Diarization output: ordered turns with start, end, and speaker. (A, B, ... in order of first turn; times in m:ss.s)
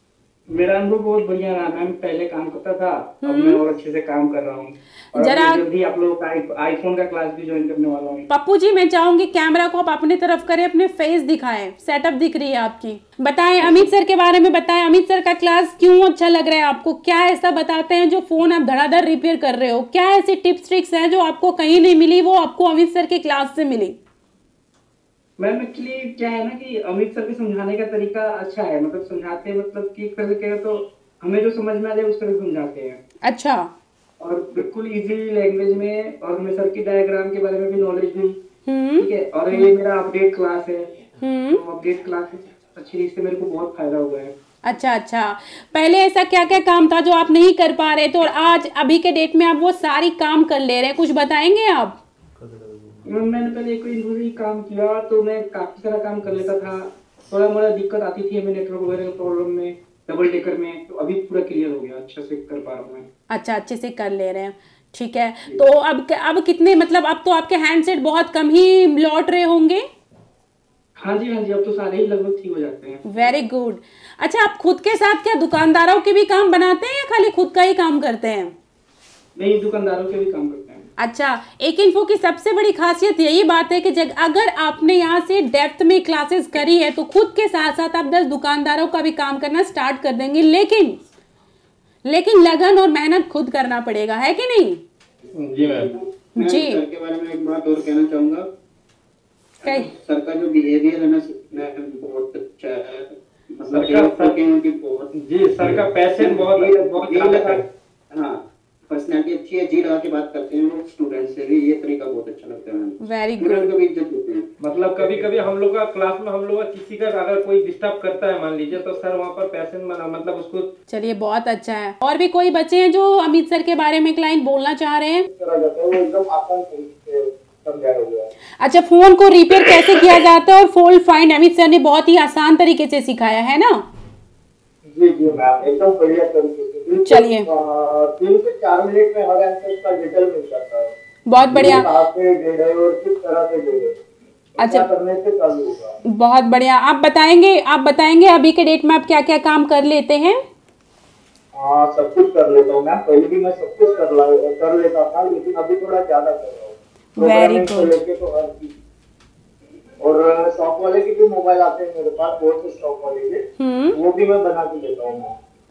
0:00.5-0:08.2 A
0:03.2-0:03.6 B
0:05.2-0:05.6 B
0:08.3-0:24.0 B
0:13.6-0:13.9 A
0:25.4-0:33.0 A
0:33.2-0:33.7 B
0:34.2-0:38.4 A
0:38.7-0:39.7 B
0:39.0-0:40.9 A
0:41.2-0:41.6 B
0:41.5-0:44.3 A
0:44.6-0:52.0 B
0:53.0-1:03.0 A
1:03.3-1:09.8 B
1:11.0-1:13.0 A
1:13.0-1:18.5 B
1:19.4-1:20.8 A
1:21.0-1:31.0 B
1:32.0-1:34.8 B
1:35.4-1:35.9 C
1:36.4-1:36.8 B
1:36.9-1:38.4 D
1:39.6-1:39.9 B
1:40.0-1:42.9 D
1:43.7-1:44.4 C
1:44.0-1:45.0 D
1:45.2-1:47.6 C
1:48.9-1:52.9 D
1:53.0-1:53.7 B
1:53.8-1:54.4 D
1:54.6-2:00.7 C
2:00.9-2:05.2 B
2:05.3-2:08.3 E
2:08.6-2:13.8 B
2:14.9-2:23.9 E
2:17.0-2:17.5 B
2:21.3-2:21.9 B
2:24.6-2:24.9 B
2:24.6-2:26.0 E
2:26.1-2:30.4 B
2:31.5-2:38.7 E
2:37.2-2:38.0 B
2:40.0-2:43.4 E
2:43.6-2:44.0 B
2:43.9-2:45.3 E